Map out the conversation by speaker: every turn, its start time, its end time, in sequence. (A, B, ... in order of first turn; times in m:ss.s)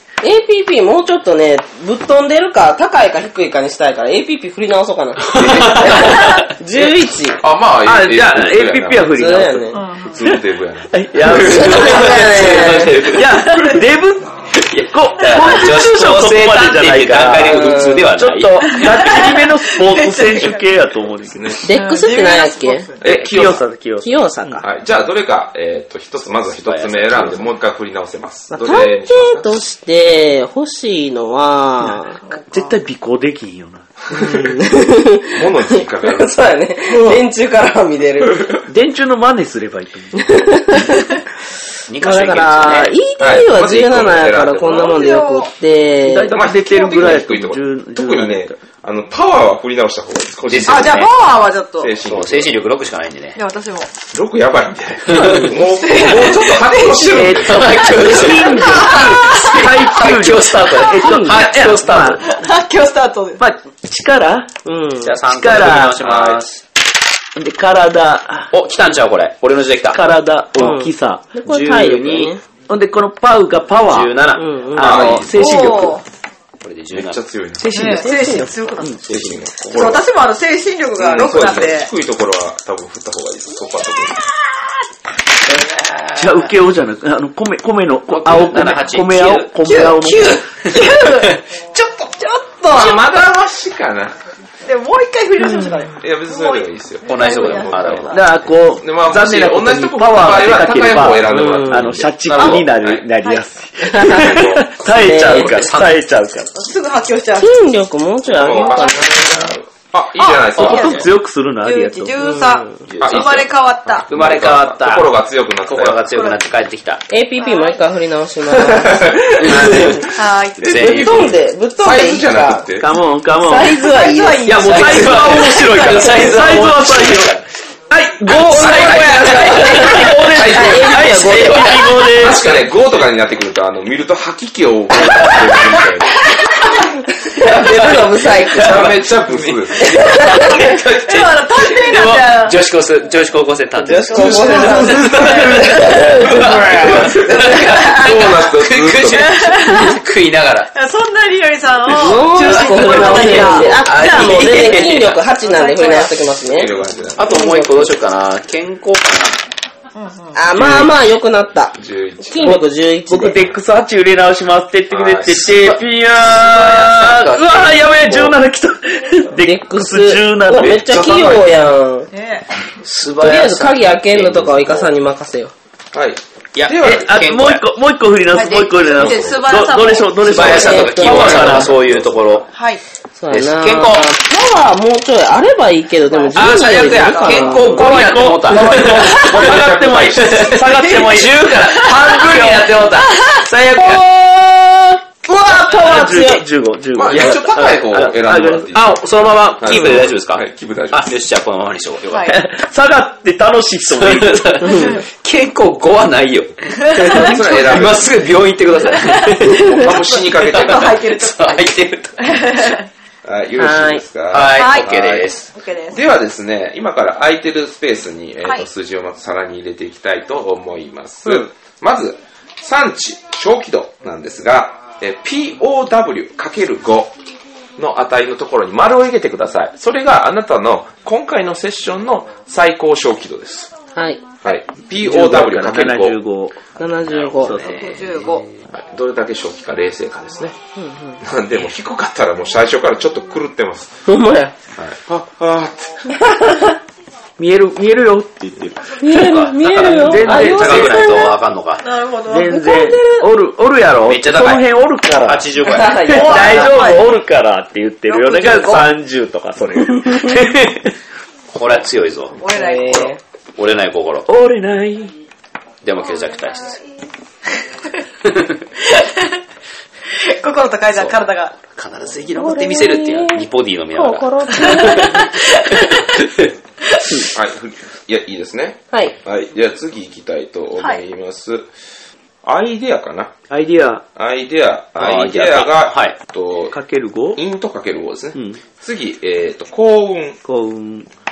0:00.2-0:07.4 A
0:05.3-0:06.1 B
0:05.4-0:06.4 C
0:07.4-0:09.2 B
0:07.8-0:09.8 D
0:09.0-0:09.8 A
0:09.7-0:10.1 E
0:10.0-0:11.9 B
0:10.9-0:21.6 D
0:11.3-0:13.1 A
0:11.5-0:13.5 C
0:11.9-0:12.8 E
0:13.5-0:13.8 E
0:14.7-0:19.2 C
0:17.4-0:18.1 A
0:18.8-0:20.6 E
0:21.2-0:21.6 B
0:21.6-0:22.9 A
0:21.7-0:23.1 E
0:23.0-0:24.6 D
0:23.0-0:23.6 B
0:24.0-0:24.6 A
0:24.6-0:29.5 B
0:26.5-0:27.5 C
0:28.5-0:32.2 A
0:32.2-0:32.8 E
0:32.5-0:34.0 D
0:34.1-0:34.4 B
0:34.1-0:38.5 A
0:35.3-0:36.5 B
0:38.7-0:40.4 D
0:40.1-0:41.0 A
0:41.9-0:43.0 C
0:42.0-0:46.3 A
0:43.2-0:45.0 B
0:44.6-0:45.5 E
0:46.0-0:48.6 D
0:46.3-0:51.1 B
0:50.5-0:51.1 C
0:50.6-0:52.0 E
0:51.8-0:52.6 B
0:52.0-0:53.4 C
0:53.3-0:53.9 E
0:54.1-0:57.9 B
0:55.1-0:55.4 C
0:55.2-0:57.1 E
0:57.0-1:02.3 D
0:57.4-1:02.2 C
0:58.0-0:59.7 E
1:01.0-1:01.4 A
1:02.2-1:03.4 E
1:03.4-1:04.5 D
1:04.6-1:05.2 A
1:05.0-1:06.6 C
1:05.2-1:06.4 D
1:07.4-1:08.5 D
1:08.5-1:10.1 C
1:09.9-1:11.4 D
1:10.6-1:12.4 A
1:11.4-1:12.4 C
1:12.7-1:14.2 D
1:13.8-1:15.2 C
1:14.4-1:15.0 A
1:14.7-1:16.0 D
1:14.8-1:15.4 B
1:15.3-1:16.0 E
1:16.6-1:17.2 C
1:16.9-1:18.0 B
1:17.6-1:19.0 D
1:17.7-1:19.1 E
1:17.8-1:18.5 A
1:19.0-1:19.4 C
1:19.1-1:20.0 B
1:19.6-1:21.9 E
1:21.0-1:24.2 B
1:25.5-1:26.5 C
1:26.2-1:30.5 D
1:28.1-1:31.4 C
1:29.6-1:33.2 E
1:32.7-1:34.1 B
1:34.6-1:38.2 E
1:36.0-1:43.0 B
1:37.0-1:38.5 C
1:38.1-1:46.5 D
1:41.3-1:41.9 A
1:43.8-1:44.3 A
1:44.0-1:44.7 B
1:44.9-1:46.0 C
1:44.9-1:45.6 A
1:46.5-1:47.6 E
1:47.4-1:49.5 A
1:48.3-1:51.1 B
1:48.4-1:49.1 E
1:50.2-1:54.1 E
1:50.6-1:52.2 D
1:50.7-1:51.0 C
1:52.2-1:52.7 A
1:52.9-1:53.5 C
1:53.0-1:56.0 B
1:54.1-1:55.1 C
1:55.6-1:57.0 C
1:56.1-1:56.4 E
1:57.1-1:59.2 A
1:57.4-1:57.8 E
1:58.6-2:02.9 B
1:59.4-2:01.4 C
2:00.1-2:01.3 E
2:00.7-2:02.7 A
2:02.8-2:07.4 D
2:03.3-2:04.7 A
2:03.7-2:06.6 E
2:04.6-2:07.4 C
2:07.9-2:12.6 D
2:08.3-2:11.4 B
2:08.5-2:09.9 C
2:08.6-2:12.0 A
2:12.1-2:16.2 B
2:17.3-2:19.0 A
2:17.4-2:30.7 C
2:18.6-2:20.0 B
2:19.8-2:20.6 A
2:20.1-2:22.6 E
2:23.8-2:26.5 A
2:23.9-2:28.2 E
2:24.5-2:27.1 D
2:26.3-2:29.3 B
2:29.1-2:30.0 E
2:30.7-2:36.2 E
2:31.9-2:36.8 A
2:32.1-2:35.2 C
2:33.4-2:33.6 D
2:36.4-2:37.5 B
2:37.2-2:39.4 C
2:37.3-2:37.9 A
2:40.0-2:40.4 E
2:40.3-2:43.4 A
2:40.5-2:40.9 B
2:41.7-2:42.6 B
2:42.4-2:51.3 D
2:44.9-2:45.5 B
2:45.4-2:48.3 C
2:49.4-2:52.1 A
2:50.8-2:51.5 B
2:52.1-2:52.5 E
2:52.8-2:54.9 C
2:53.2-2:55.5 A
2:55.9-2:57.2 B
2:56.5-2:57.6 C
2:56.8-3:01.8 D
2:58.3-3:01.5 E
2:58.9-2:59.4 B
3:00.2-3:02.4 C
3:00.5-3:01.5 A
3:01.0-3:02.3 B
3:02.5-3:02.8 E
3:03.2-3:07.9 A
3:03.3-3:04.1 C
3:06.1-3:07.8 E
3:06.3-3:14.0 C
3:07.5-3:11.5 D
3:08.5-3:10.6 B
3:10.7-3:12.4 E
3:12.2-3:12.8 D
3:13.6-3:15.0 D
3:14.1-3:16.4 A
3:15.5-3:18.7 D
3:16.9-3:19.0 B
3:18.7-3:22.4 C
3:19.6-3:21.2 B
3:19.7-3:20.0 D
3:22.1-3:22.4 E
3:22.3-3:24.9 D
3:23.9-3:32.8 C
3:24.7-3:25.0 E
3:26.8-3:27.4 E
3:27.0-3:28.2 B
3:28.9-3:32.8 E
3:29.4-3:31.0 B
3:33.2-3:35.3 B
3:33.6-3:34.0 A
3:34.3-3:35.5 C
3:34.5-3:36.0 E
3:35.9-3:47.2 B
3:47.8-3:53.7 B
3:53.9-3:54.2 A
3:54.4-3:56.2 B
3:55.0-3:56.7 D
3:56.8-3:57.6 A
3:57.0-3:58.6 C
3:57.4-3:58.0 D
3:57.6-3:58.5 E
3:58.7-4:00.6 B
4:00.8-4:01.2 A
4:01.2-4:04.0 B
4:04.1-4:04.5 A
4:04.7-4:06.2 B
4:06.3-4:06.6 A
4:07.4-4:09.1 D
4:09.0-4:11.4 A
4:09.1-4:11.9 C
4:09.6-4:11.1 D
4:11.8-4:12.6 E
4:12.2-4:20.9 D
4:12.5-4:13.3 A
4:14.0-4:14.7 C
4:15.2-4:16.6 C
4:15.6-4:16.4 A
4:15.7-4:17.1 E
4:18.1-4:18.9 E
4:21.5-4:22.4 C
4:22.4-4:23.2 E
4:22.5-4:23.2 A
4:23.6-4:24.3 C
4:24.3-4:25.1 D
4:25.8-4:26.8 C
4:28.8-4:29.4 E
4:30.1-4:31.6 E
4:30.9-4:35.3 C
4:32.4-4:35.2 A
4:34.6-4:36.0 E
4:35.9-4:36.4 C
4:37.3-4:41.7 B
4:42.4-4:43.3 B
4:43.5-4:44.0 D
4:44.1-4:46.8 B
4:45.0-4:46.2 C
4:46.7-4:47.4 D
4:47.3-4:50.4 B
4:48.3-4:48.6 D
4:50.4-4:51.1 D